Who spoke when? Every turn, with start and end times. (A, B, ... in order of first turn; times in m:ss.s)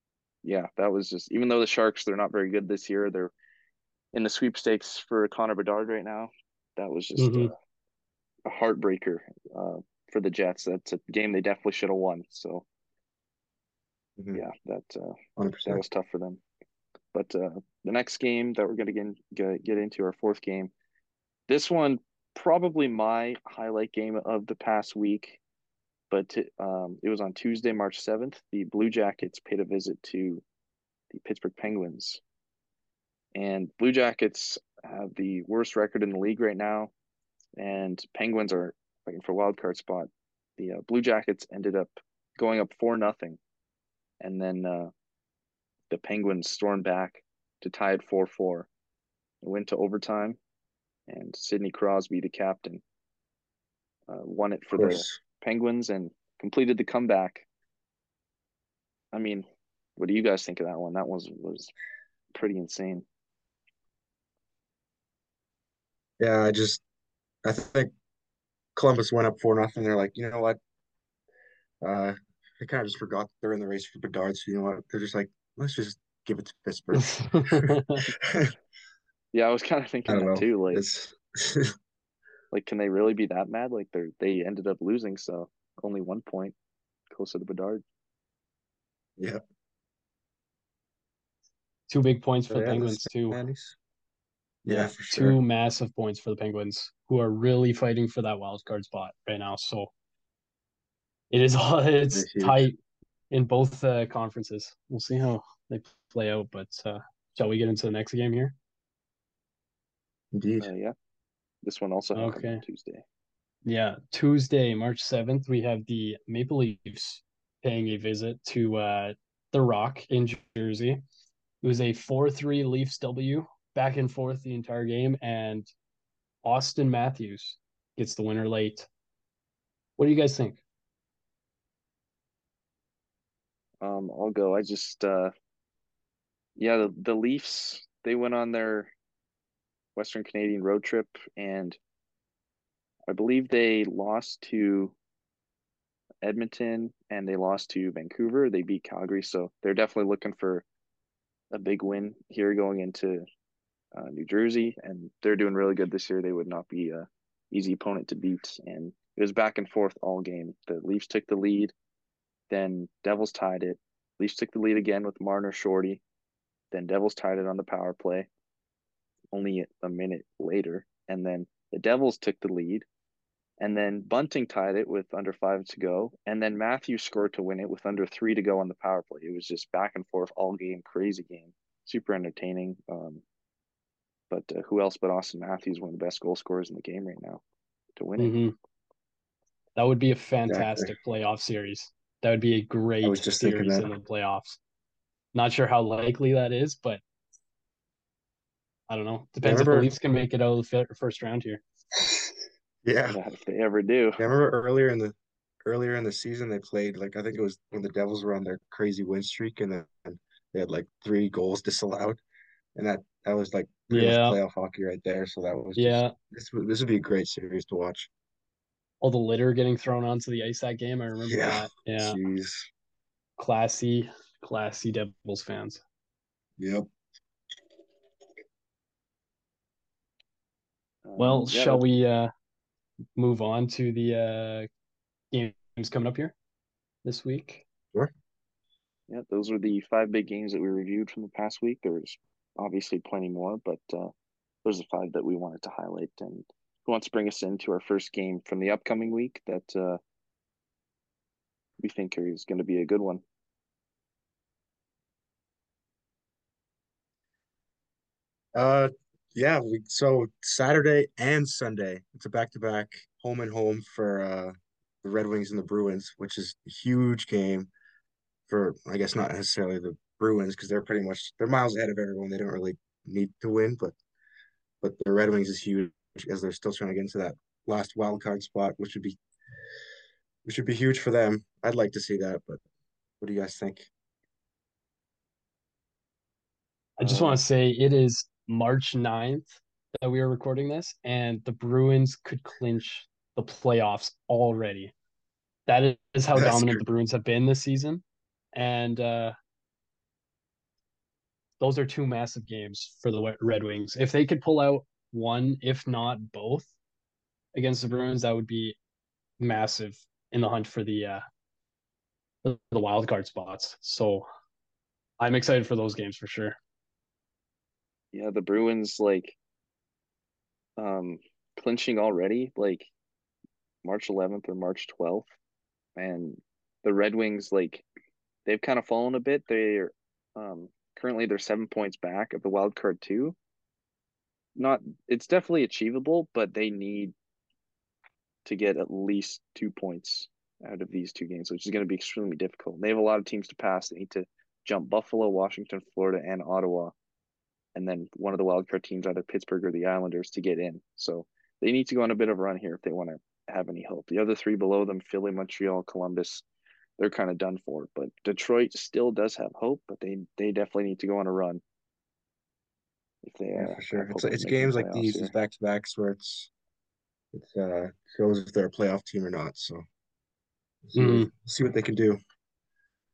0:00.4-0:03.3 A
0:04.1-0:07.5 A
0:07.2-0:07.5 B
0:08.5-0:12.6 A
0:14.2-0:14.4 C
0:14.3-0:16.4 A
0:15.4-0:15.8 C
0:17.1-0:20.7 A
0:21.5-0:25.4 A
0:26.1-0:30.4 A
0:31.1-0:32.2 A
0:33.4-0:36.9 A
0:37.6-0:43.4 A
0:44.2-0:44.9 A
0:45.9-0:48.7 A
0:49.4-0:50.4 A
0:51.1-0:52.8 A
0:54.1-0:57.4 A
0:54.7-0:55.2 C
0:59.1-0:59.4 A
1:00.0-1:01.7 A
1:02.3-1:03.0 A
1:06.2-1:06.8 C
1:07.4-1:07.9 C
1:08.8-1:10.6 C
1:11.8-1:18.5 C
1:17.0-1:18.1 B
1:19.3-1:20.8 A
1:20.1-1:21.7 C
1:22.5-1:26.6 A
1:27.1-1:27.8 A
1:31.9-1:33.4 B
1:32.5-1:33.8 C
1:34.6-1:39.9 B
1:34.7-1:35.4 C
1:41.3-1:42.8 B
1:42.1-1:42.7 C
1:43.3-1:48.6 B
1:50.3-1:50.7 C
1:50.6-1:51.0 A
1:51.6-1:53.0 A
1:52.2-1:52.6 B
1:53.6-2:01.0 B
2:01.6-2:05.7 B
2:06.4-2:08.9 B
2:10.0-2:10.6 B
2:13.8-2:15.3 A
2:16.6-2:18.9 A
2:20.0-2:21.8 A
2:23.1-2:25.0 A
2:26.2-2:30.6 A
2:31.5-2:33.2 A
2:34.0-2:41.7 A
2:42.5-2:46.0 A
2:46.7-2:48.3 A
2:49.3-2:52.9 A
2:53.6-3:03.2 A
3:04.3-3:07.4 A
3:08.0-3:08.3 A
3:08.2-3:08.5 B
3:09.8-3:14.6 B
3:10.5-3:10.9 C
3:13.0-3:13.9 C
3:15.3-3:17.0 B
3:18.9-3:21.6 B
3:19.4-3:19.9 C
3:21.9-3:23.2 C
3:23.1-3:24.2 A
3:24.2-3:32.2 C
3:32.8-3:38.1 C
3:33.9-3:34.4 B
3:35.8-3:36.1 B
3:39.0-3:42.2 B
3:41.3-3:42.7 C
3:43.4-3:45.8 B
3:46.6-3:46.9 C
3:51.0-3:51.8 A
3:51.2-3:52.3 B
3:53.2-3:54.7 B
3:55.3-3:56.3 B
3:57.0-3:57.6 B
3:59.1-4:04.1 A
4:04.6-4:10.0 A
4:11.8-4:13.2 A
4:18.6-4:27.7 C
4:28.5-4:34.0 C
4:34.8-4:39.2 C
4:40.4-4:42.6 C
4:43.2-4:43.9 C
4:47.0-4:54.9 B
4:47.0-4:47.4 C
4:55.7-4:58.0 B
4:56.4-4:56.8 C
4:58.5-4:59.4 B
5:01.6-5:06.7 B
5:07.6-5:08.8 B
5:09.4-5:11.2 B
5:12.4-5:14.2 B
5:15.2-5:16.6 B
5:18.1-5:19.4 A
5:20.8-5:22.9 A
5:23.8-5:25.3 A
5:26.0-5:27.8 A
5:28.5-5:33.4 A
5:34.6-5:37.1 A
5:38.4-5:46.9 A
5:47.8-5:56.4 A
5:57.0-6:01.6 A
6:03.2-6:05.3 A
6:03.6-6:06.5 C
6:07.3-6:09.8 C
6:10.8-6:12.2 C
6:11.0-6:11.3 B